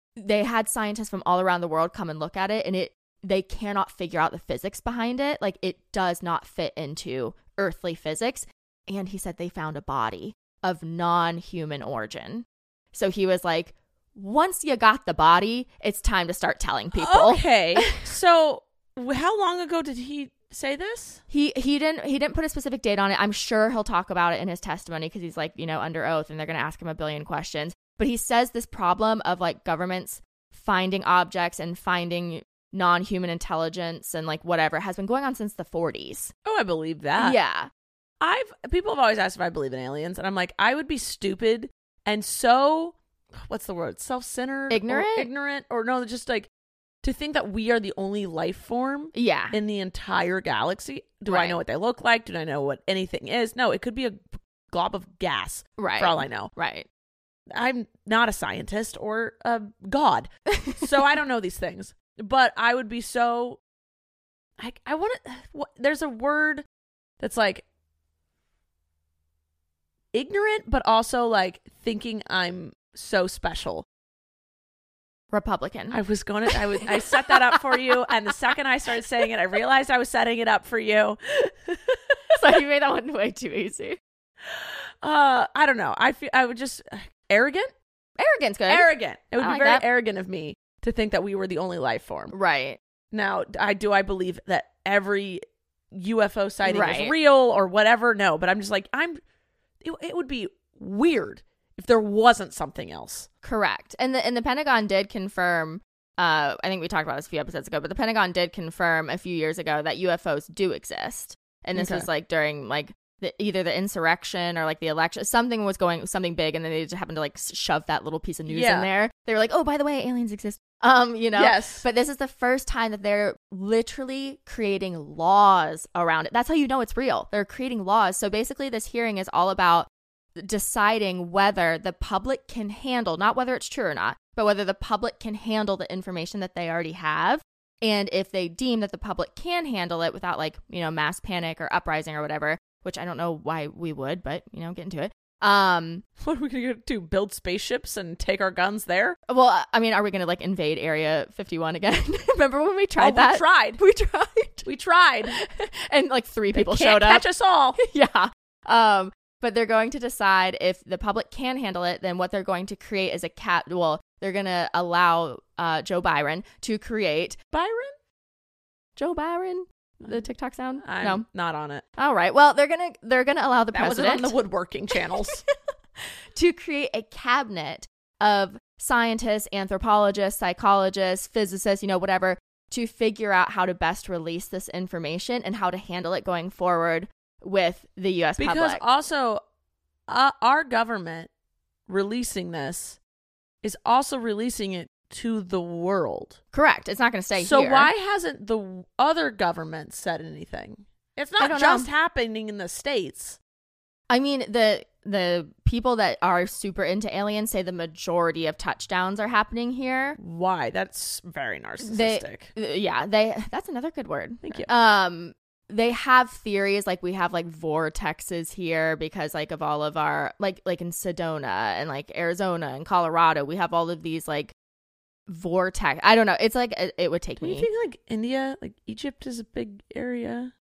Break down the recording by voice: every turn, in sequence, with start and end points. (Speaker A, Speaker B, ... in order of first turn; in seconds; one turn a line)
Speaker A: 0.2-17.9
Speaker B: 16.9-21.2
Speaker A: 21.3-36.3
Speaker B: 36.5-37.4
Speaker A: 37.2-37.7
Speaker B: 38.2-46.5
Speaker A: 44.7-45.3
Speaker B: 47.0-56.5
Speaker A: 49.1-49.6
Speaker A: 51.3-51.6
Speaker A: 55.8-56.9
Speaker B: 57.5-63.6
Speaker A: 60.5-60.8
Speaker B: 64.6-66.6
Speaker B: 67.2-67.7
Speaker B: 70.1-73.8
Speaker A: 75.3-76.0
Speaker B: 75.9-82.0
Speaker A: 76.8-77.8
Speaker A: 82.3-84.0
Speaker B: 84.5-87.7
Speaker A: 88.2-89.8
Speaker B: 88.7-92.3
Speaker A: 92.3-92.8
Speaker B: 93.1-99.2
Speaker A: 96.6-97.2
Speaker B: 99.8-103.3
Speaker A: 103.4-146.0
Speaker B: 111.8-112.1
Speaker B: 118.5-118.9
Speaker B: 121.3-121.9
Speaker B: 146.2-149.2
Speaker A: 149.3-154.7
Speaker B: 153.0-153.8
Speaker B: 154.7-155.3
Speaker A: 155.3-157.2
Speaker B: 156.5-157.8
Speaker A: 157.8-167.4
Speaker B: 167.5-167.9
Speaker A: 169.0-171.2
Speaker B: 170.8-171.8
Speaker A: 172.0-174.3
Speaker B: 173.7-175.4
Speaker A: 176.3-188.8
Speaker B: 188.4-189.4
Speaker B: 190.1-191.3
Speaker B: 191.9-193.0
Speaker B: 193.6-196.4
Speaker A: 196.5-197.9
Speaker B: 197.4-203.4
Speaker A: 201.4-201.9
Speaker A: 204.1-210.2
Speaker B: 210.2-212.5
Speaker A: 211.8-224.5
Speaker B: 214.4-214.7
Speaker A: 225.3-227.7
Speaker B: 227.4-230.5